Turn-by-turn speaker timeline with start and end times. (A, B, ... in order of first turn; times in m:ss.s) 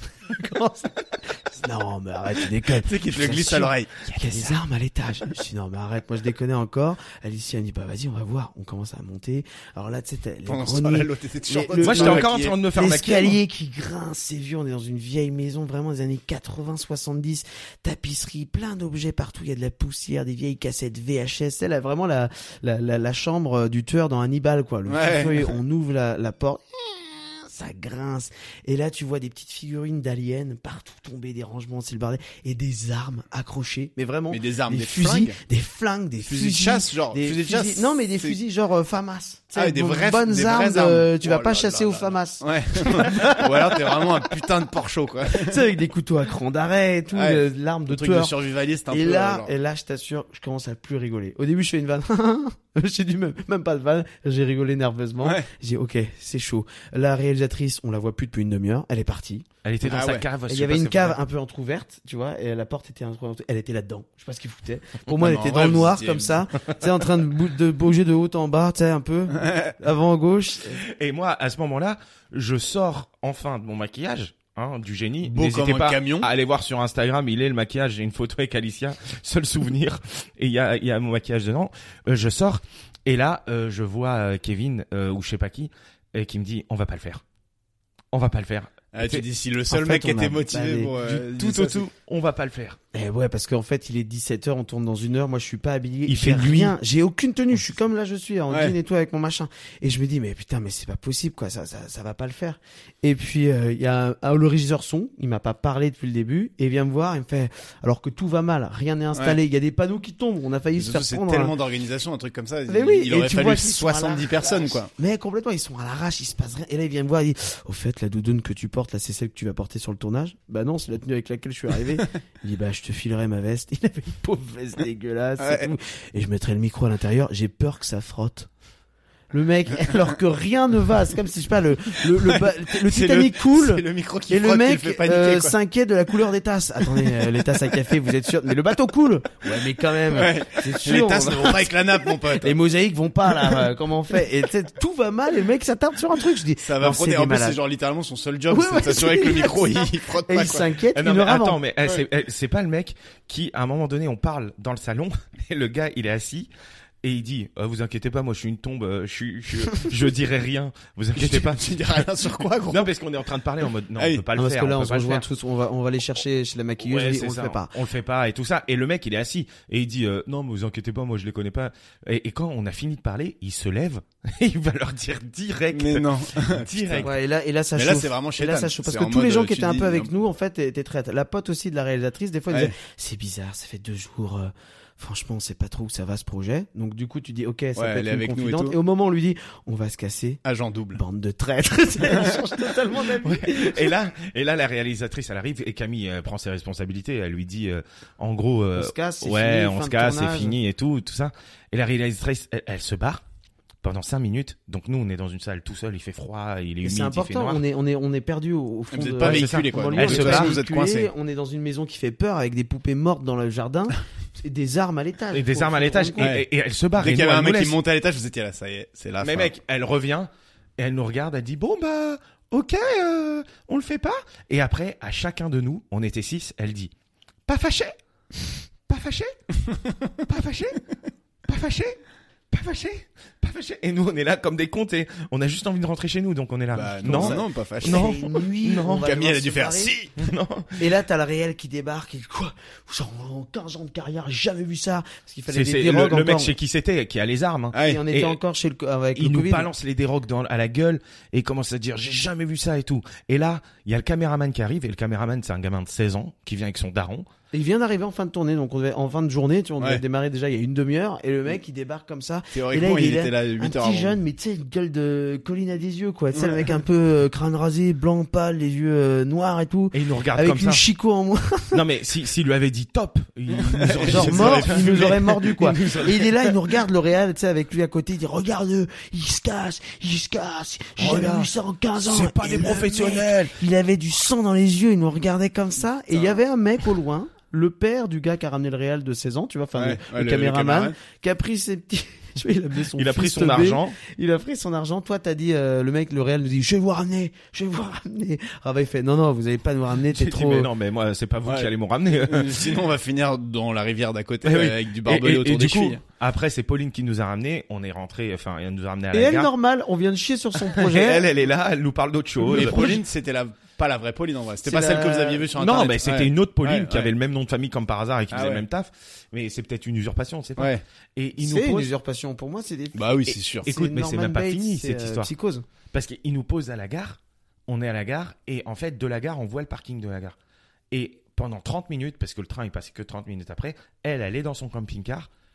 0:00.2-0:44.0 A
0:02.6-0:04.0 B
0:04.1-0:04.5 C
0:10.4-0:12.6 B
0:11.8-0:13.4 C
0:24.9-0:25.5 B
0:34.3-0:35.4 B
0:36.2-0:38.4 B
0:39.6-0:45.6 B
0:45.3-0:48.3 A
0:47.1-0:49.5 B
0:48.9-0:59.4 A
0:55.2-0:55.5 B
0:59.6-1:01.2 C
0:59.8-1:00.2 B
1:00.5-1:10.8 A
1:05.1-1:06.4 B
1:09.4-1:09.7 B
1:10.8-1:27.2 C
1:15.2-1:16.3 B
1:28.1-1:29.2 C
1:28.9-1:31.8 B
1:29.7-1:30.9 A
1:30.9-1:32.8 C
1:32.9-1:51.5 A
1:36.1-1:36.7 C
1:38.5-1:38.7 B
1:50.8-1:54.9 B
1:52.7-2:08.5 A
2:05.4-2:05.7 B
2:09.3-2:27.6 A
2:12.2-2:15.5 B
2:16.8-2:17.3 B
2:20.1-2:22.5 B
2:26.6-2:30.7 B
2:28.5-2:31.6 A
2:30.9-2:36.5 C
2:37.0-2:42.0 C
2:41.2-2:42.9 B
2:42.7-2:45.2 C
2:44.0-2:44.2 B
2:44.4-2:47.7 A
2:46.8-2:57.1 C
2:55.7-2:57.1 B
2:57.0-3:10.4 A
2:57.7-3:00.1 B
3:07.8-3:08.8 B
3:10.4-3:11.0 B
3:10.9-3:13.9 A
3:13.1-3:23.2 C
3:18.8-3:20.6 A
3:23.8-3:27.6 C
3:26.8-3:36.3 A
3:28.9-3:31.1 B
3:29.2-3:30.6 C
3:35.3-3:37.8 C
3:36.2-3:39.5 B
3:39.2-3:46.9 C
3:47.4-3:49.3 C
3:50.2-3:50.8 C
3:51.4-3:52.0 C
3:52.5-3:59.1 C
3:56.7-4:00.1 B
3:57.0-4:00.0 A
4:00.2-4:00.8 C
4:00.8-4:06.5 A
4:05.5-4:08.4 C
4:07.7-4:08.0 B
4:07.8-4:09.7 A
4:09.1-4:17.3 C
4:17.5-4:31.8 A
4:22.5-4:24.2 B
4:26.3-4:26.8 B
4:29.9-4:30.8 C
4:31.7-4:36.5 C
4:33.5-4:35.8 B
4:33.9-5:00.7 A
4:41.0-4:43.6 C
4:46.1-4:46.4 B
4:49.7-4:50.9 B
4:53.0-4:54.0 C
5:00.1-5:02.8 C
5:01.4-5:06.0 B
5:04.4-5:09.5 C
5:09.1-5:11.3 A
5:10.7-5:13.0 C
5:12.4-5:17.1 B
5:12.5-5:13.0 A
5:14.6-5:15.5 A
5:15.5-5:21.9 C
5:18.3-5:18.6 B
5:20.6-5:20.8 B
5:21.4-5:25.6 A
5:22.9-5:23.7 B
5:23.6-5:25.3 C
5:25.9-5:30.4 C
5:30.9-5:35.3 C